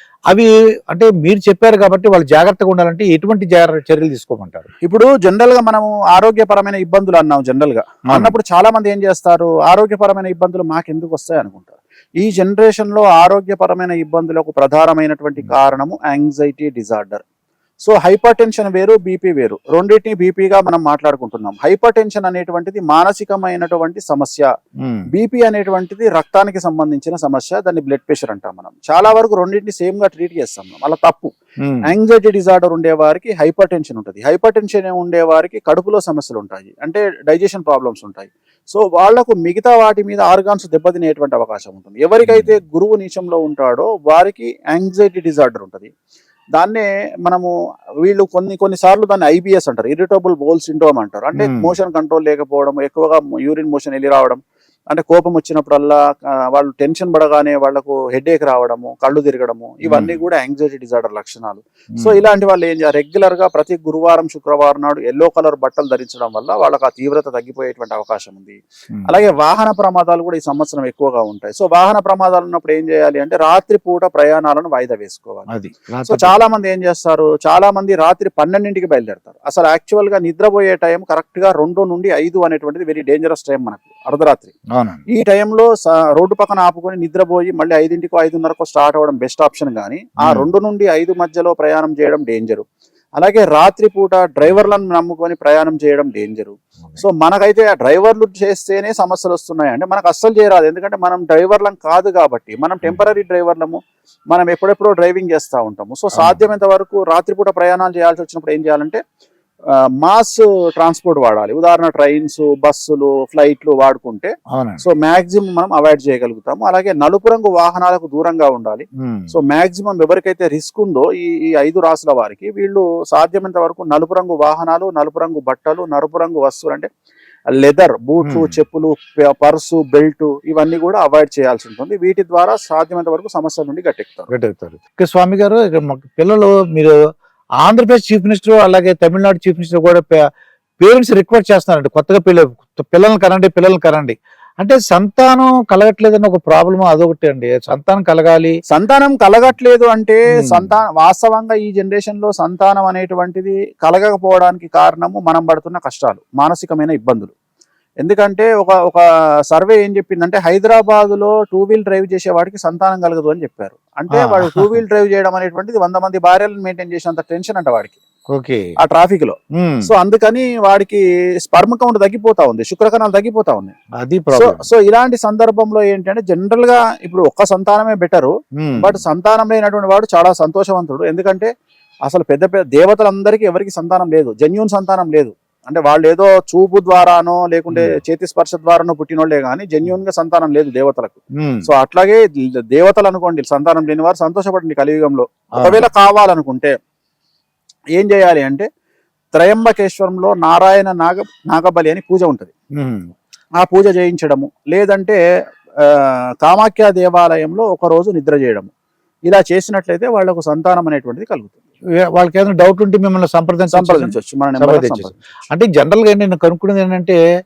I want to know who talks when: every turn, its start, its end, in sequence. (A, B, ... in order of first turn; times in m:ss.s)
0:00.3-0:04.7 A
0:04.8-0:17.2 B
0:17.8-0:24.5 B
0:24.8-0:25.1 A
0:25.1-0:31.3 B
0:31.6-0:31.9 A
0:31.8-0:45.9 B
0:42.2-0:42.5 A
0:46.6-0:47.5 B
0:48.0-0:56.0 B
0:51.4-0:51.7 A
0:56.5-1:15.5 B
0:59.8-1:00.2 A
1:15.5-1:16.3 A
1:16.1-1:24.5 B
1:24.7-1:25.0 A
1:25.1-1:32.6 B
1:30.2-1:30.5 A
1:33.2-1:49.0 B
1:46.1-1:46.4 A
1:50.0-2:06.9 B
1:54.5-1:54.8 A
1:59.0-1:59.3 A
2:07.5-2:14.3 B
2:08.2-2:08.5 A
2:14.3-2:16.9 A
2:17.6-2:20.1 A
2:20.8-2:28.5 A
2:28.7-2:37.3 B
2:30.4-2:30.7 A
2:38.0-2:48.0 B
2:44.1-2:44.8 A
2:48.3-2:48.6 A
2:48.8-2:53.7 B
2:49.5-2:49.9 A
2:54.0-2:54.6 A
2:54.3-3:01.5 B
2:58.6-2:59.0 A
3:02.0-3:16.7 B
3:11.4-3:11.6 A
3:18.0-3:18.7 B
3:19.3-3:22.5 B
3:22.8-3:23.1 A
3:23.6-3:25.2 B
3:25.8-3:28.7 B
3:29.3-3:31.6 B
3:32.2-3:37.2 A
3:33.7-3:35.2 B